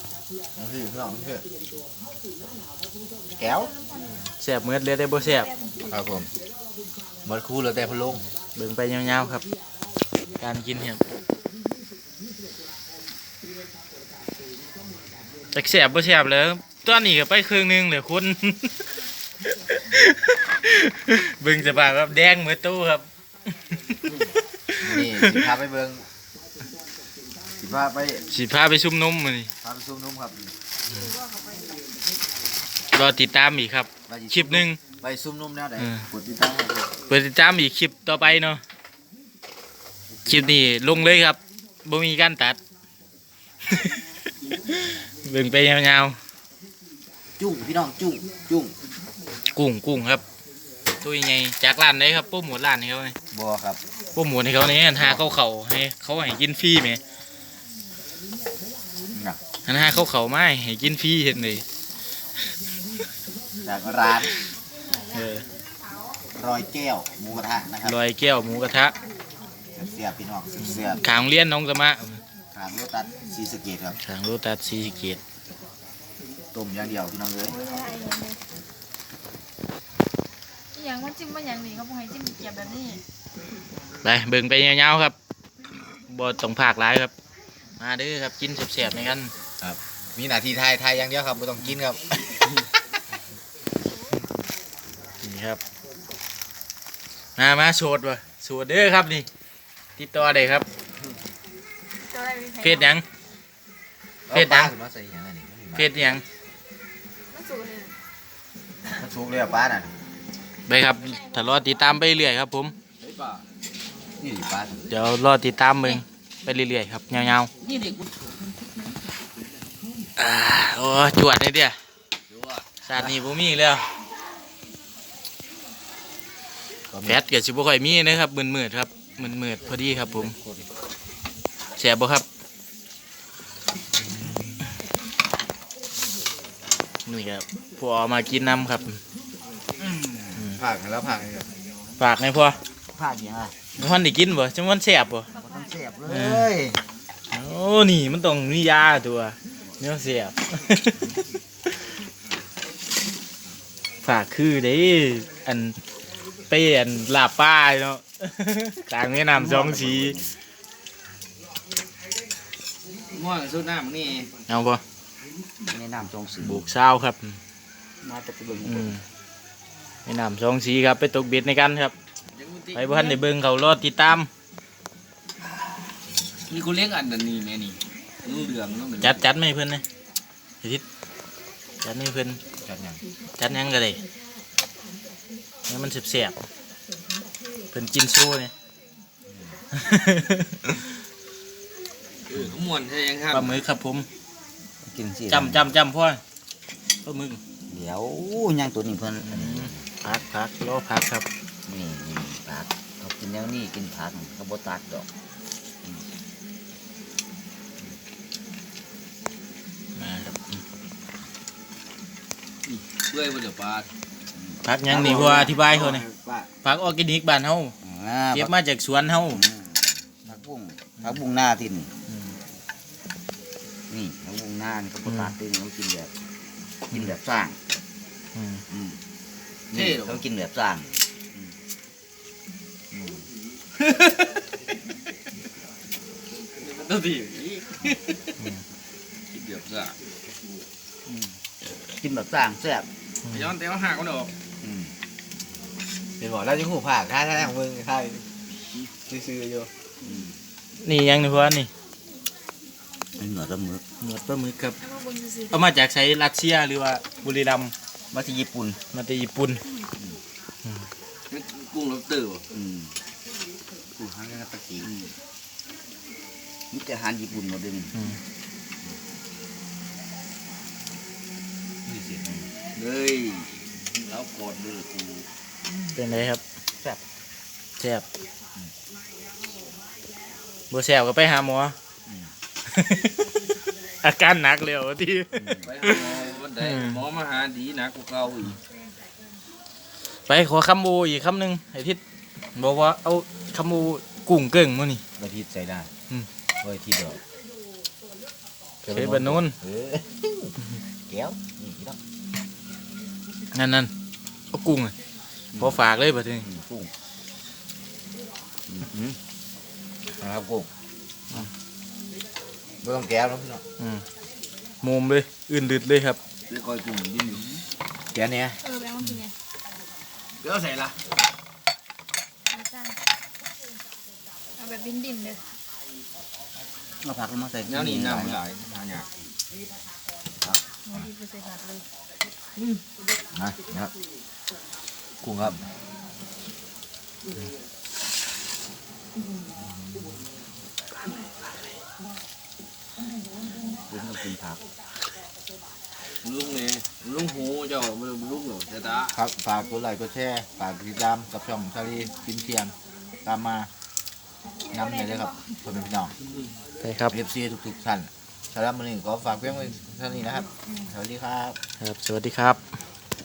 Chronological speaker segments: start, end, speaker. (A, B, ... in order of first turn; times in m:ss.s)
0:00.6-0:01.4 A
0:03.4-0:03.8 A
0:04.2-0:05.5 B
0:05.9-0:06.3 A
0:07.2-0:08.2 A
0:08.5-0:09.4 B
0:10.4-0:11.0 B
0:15.5-0:18.8 B
0:19.4-0:23.0 B
0:23.7-0:24.0 B
0:24.7-0:25.4 B
0:24.8-0:26.1 A
0:27.6-0:28.3 A
0:28.3-0:29.5 B
0:29.6-0:30.5 A
0:31.0-0:31.8 C
0:32.9-0:34.8 B
0:34.1-0:36.9 A
0:35.8-0:36.1 B
0:37.1-0:38.6 B
0:40.2-0:40.6 A
0:40.2-0:42.6 B
0:43.7-0:44.0 B
0:44.6-0:46.2 B
0:47.4-0:48.7 A
0:49.5-0:50.2 B
0:51.0-0:53.2 B
0:53.3-0:53.8 A
0:53.3-0:53.8 D
0:54.1-0:57.0 B
0:59.6-1:01.6 B
1:03.6-1:04.3 A
1:05.1-1:05.4 B
1:06.3-1:08.0 A
1:07.8-1:08.9 B
1:09.7-1:11.0 A
1:10.6-1:12.2 B
1:12.5-1:14.0 A
1:14.0-1:15.2 B
1:16.5-1:17.8 A
1:17.5-1:18.4 C
1:20.8-1:23.0 C
1:24.0-1:25.2 B
1:26.1-1:27.1 B
1:27.8-1:29.3 B
1:29.6-1:32.1 A
1:35.2-1:35.6 B
1:37.4-1:39.3 B
1:40.0-1:40.7 B
1:42.0-1:42.9 C
1:42.6-1:43.0 B
1:44.3-1:45.9 A
1:44.3-1:44.7 B
1:45.7-1:46.2 B
1:47.3-1:47.9 C
1:48.9-1:49.9 A
1:50.7-1:52.7 B
1:53.0-1:53.4 E
1:54.2-1:54.9 A
1:54.9-1:57.5 B
1:57.6-1:57.9 E
2:00.2-2:01.8 B
2:02.3-2:02.7 E
2:02.8-2:03.8 B
2:06.9-2:07.2 A
2:07.0-2:10.3 B
2:09.7-2:10.6 A
2:11.8-2:12.2 B
2:17.0-2:19.0 B
2:20.0-2:20.3 D
2:20.4-2:21.5 A
2:22.0-2:22.6 B
2:22.9-2:23.5 D
2:23.7-2:25.3 B
2:25.4-2:26.7 D
2:26.1-2:26.5 B
2:26.1-2:26.6 A
2:27.3-2:31.4 B
2:34.0-2:35.8 B
2:36.5-2:40.2 B
2:39.3-2:40.3 D
2:43.1-2:44.3 E
2:44.5-2:44.8 B
2:45.6-2:46.6 D
2:46.4-2:47.4 B
2:48.0-2:48.9 D
2:48.6-2:49.0 B
2:50.0-2:51.9 B
2:52.3-2:53.2 E
2:52.7-2:54.3 B
2:56.5-2:59.3 E
2:59.0-2:59.8 B
3:01.8-3:02.4 B
3:02.6-3:03.0 A
3:03.4-3:04.0 B
3:05.7-3:06.4 B
3:07.7-3:08.5 B
3:09.3-3:09.6 A
3:09.8-3:10.8 B
3:12.3-3:13.6 E
3:13.3-3:14.1 B
3:14.8-3:15.7 D
3:15.3-3:16.2 B
3:17.0-3:17.4 B
3:17.7-3:19.8 D
3:19.2-3:21.2 B
3:21.7-3:25.1 D
3:30.0-3:30.6 B
3:32.6-3:33.9 E
3:34.3-3:34.6 D
3:34.6-3:36.0 B
3:34.8-3:36.5 A
3:36.6-3:37.7 B
3:37.8-3:38.5 D
3:38.3-3:39.4 B
3:39.3-3:41.9 D
3:42.1-3:42.4 B
3:43.9-3:46.1 D
3:45.0-3:45.4 B
3:46.9-3:47.6 D
3:48.3-3:48.6 B
3:48.7-3:49.0 D
3:49.7-3:50.3 E
3:49.7-3:51.5 D
3:56.6-3:58.2 E
3:59.3-4:00.0 E
4:01.9-4:02.9 D
4:03.3-4:04.3 E
4:04.6-4:04.9 D
4:06.2-4:08.3 A
4:09.0-4:09.7 A
4:10.0-4:10.3 D
4:10.8-4:11.7 B
4:13.2-4:13.8 D
4:14.0-4:14.8 B
4:14.8-4:15.5 C
4:15.5-4:17.7 B
4:18.1-4:18.8 D
4:18.9-4:19.6 B
4:21.3-4:22.4 E
4:22.5-4:22.9 D
4:24.0-4:24.9 A
4:26.7-4:27.9 D
4:27.9-4:28.2 B
4:31.8-4:32.4 A
4:32.8-4:35.2 E
4:35.9-4:36.4 B
4:37.8-4:38.0 B
4:40.7-4:41.7 B
4:42.7-4:43.2 B
4:44.0-4:47.0 B
4:45.4-4:45.6 D
4:45.6-4:48.6 E
4:50.2-4:52.0 B
4:52.5-4:55.0 B
4:55.2-4:55.9 A
4:56.6-4:57.2 A
4:58.8-5:00.5 A
4:58.9-4:59.5 B
5:01.1-5:02.0 A
5:03.5-5:03.9 B
5:04.5-5:04.9 B
5:05.6-5:05.8 D
5:05.6-5:06.5 B
5:06.4-5:06.9 D
5:08.7-5:09.2 D
5:10.2-5:10.7 A
5:12.8-5:13.6 A
5:13.8-5:14.0 B
5:14.8-5:16.2 B
5:16.5-5:17.6 D
5:16.5-5:17.4 E
5:18.1-5:18.6 A
5:18.6-5:19.3 C
5:20.4-5:21.0 E
5:22.5-5:23.0 C
5:24.6-5:25.4 C
5:27.0-5:28.4 D
5:27.6-5:29.1 E
5:30.5-5:31.0 A
5:30.9-5:31.8 C
5:33.3-5:33.9 A
5:35.2-5:35.6 A
5:43.9-5:44.6 D
5:46.2-5:49.1 E
5:49.1-5:52.7 A
5:53.2-5:53.7 A
5:54.7-5:56.1 A
5:56.8-5:57.1 B
5:57.1-6:01.6 A
6:01.8-6:02.6 B